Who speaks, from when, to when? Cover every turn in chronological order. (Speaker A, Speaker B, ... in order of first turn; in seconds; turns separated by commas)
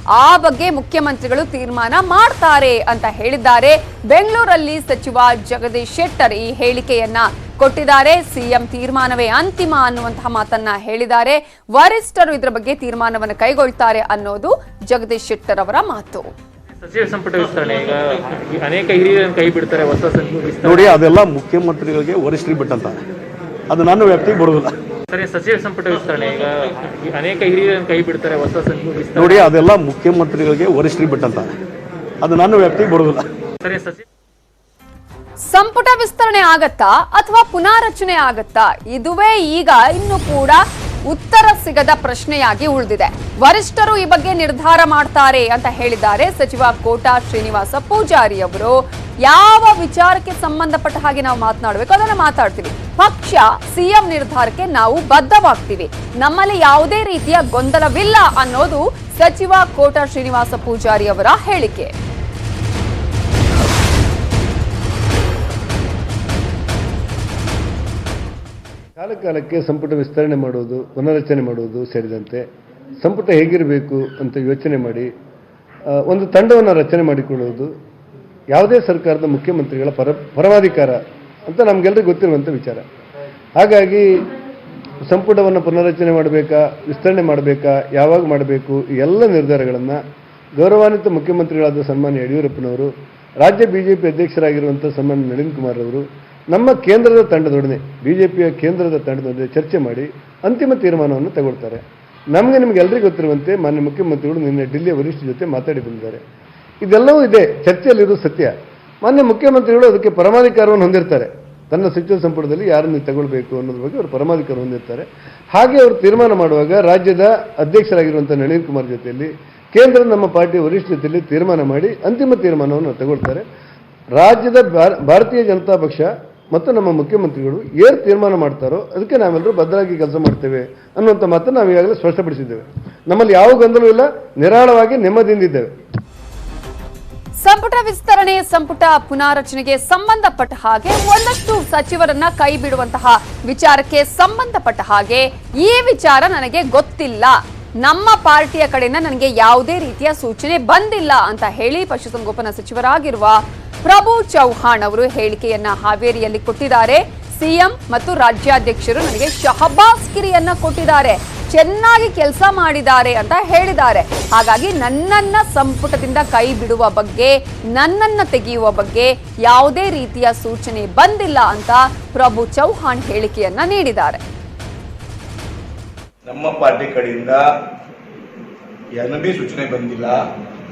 Speaker A: 0.2-16.3, Speaker B: 16.8-21.1, Speaker C: 20.6-23.0, Speaker C: 23.7-24.7, Speaker B: 25.1-29.4, Speaker C: 29.1-31.5, Speaker C: 32.2-33.3, Speaker B: 33.6-34.0, Speaker A: 35.5-61.9, Speaker D: 69.0-72.5, Speaker D: 73.0-75.1, Speaker D: 76.1-77.7, Speaker D: 78.5-82.8, Speaker D: 83.6-84.2, Speaker D: 85.1-90.0, Speaker D: 90.6-92.9, Speaker D: 93.4-101.8, Speaker D: 102.3-106.2, Speaker D: 106.8-108.5, Speaker D: 109.0-123.5, Speaker D: 124.2-135.7, Speaker A: 137.4-174.2, Speaker E: 176.3-177.4, Speaker E: 179.0-180.2